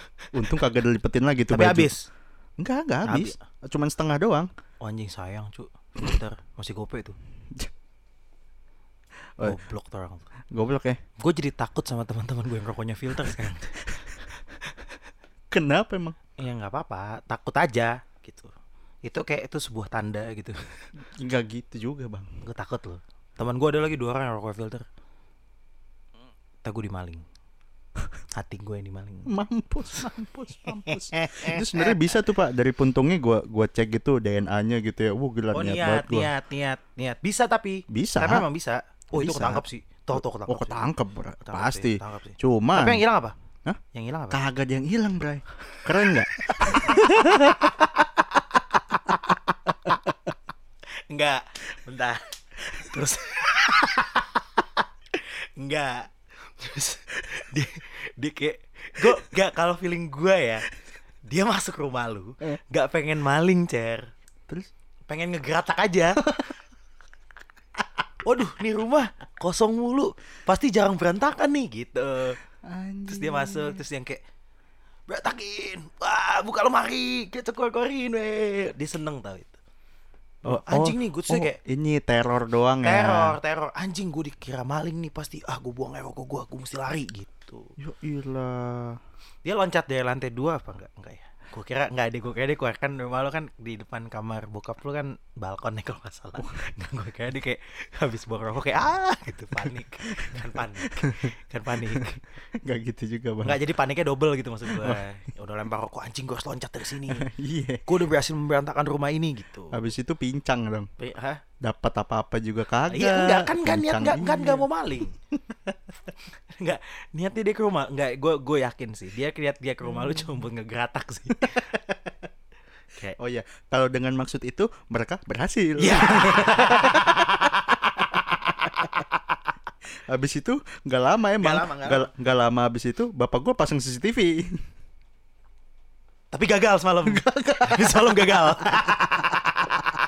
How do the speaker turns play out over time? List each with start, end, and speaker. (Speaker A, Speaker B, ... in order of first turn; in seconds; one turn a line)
Speaker A: 0.2-0.6
Speaker B: 0.3-1.9
Speaker A: 1.5-2.1
Speaker B: 2.6-4.5
Speaker A: 3.1-3.4
Speaker A: 4.8-7.2
Speaker A: 9.4-10.3
Speaker B: 10.5-11.0
Speaker A: 11.2-13.9
Speaker B: 15.5-16.2
Speaker A: 16.4-18.5
Speaker A: 19.0-20.6
Speaker B: 21.1-22.3
Speaker A: 22.4-24.9
Speaker A: 26.6-27.2
Speaker A: 28.4-29.3
Speaker B: 29.3-36.3
Speaker A: 30.6-32.1
Speaker A: 35.5-40.8
Speaker B: 37.9-38.5
Speaker B: 39.1-43.0
Speaker A: 41.4-43.4
Speaker A: 43.9-44.4
Speaker B: 44.3-48.4
Speaker A: 46.5-47.8
Speaker A: 51.1-60.7
Speaker A: 61.3-64.1
Speaker A: 65.1-66.3
Speaker A: 68.2-72.4
Speaker B: 72.6-73.8
Speaker A: 73.1-74.2
Speaker A: 75.1-79.6
Speaker A: 80.5-81.6
Speaker B: 80.5-83.4
Speaker A: 82.8-87.7
Speaker B: 87.8-89.0
Speaker A: 89.5-102.2
Speaker B: 100.2-103.6
Speaker A: 103.4-107.3
Speaker B: 104.7-105.0
Speaker B: 107.1-107.9
Speaker A: 107.9-109.8
Speaker B: 109.7-110.9
Speaker A: 111.0-111.4
Speaker B: 111.6-114.7
Speaker A: 112.9-115.2
Speaker A: 116.6-121.8
Speaker B: 120.0-120.3
Speaker B: 123.2-129.0
Speaker A: 125.8-128.0
Speaker B: 130.1-134.6
Speaker A: 131.4-132.1
Speaker A: 136.3-139.7
Speaker B: 137.1-138.9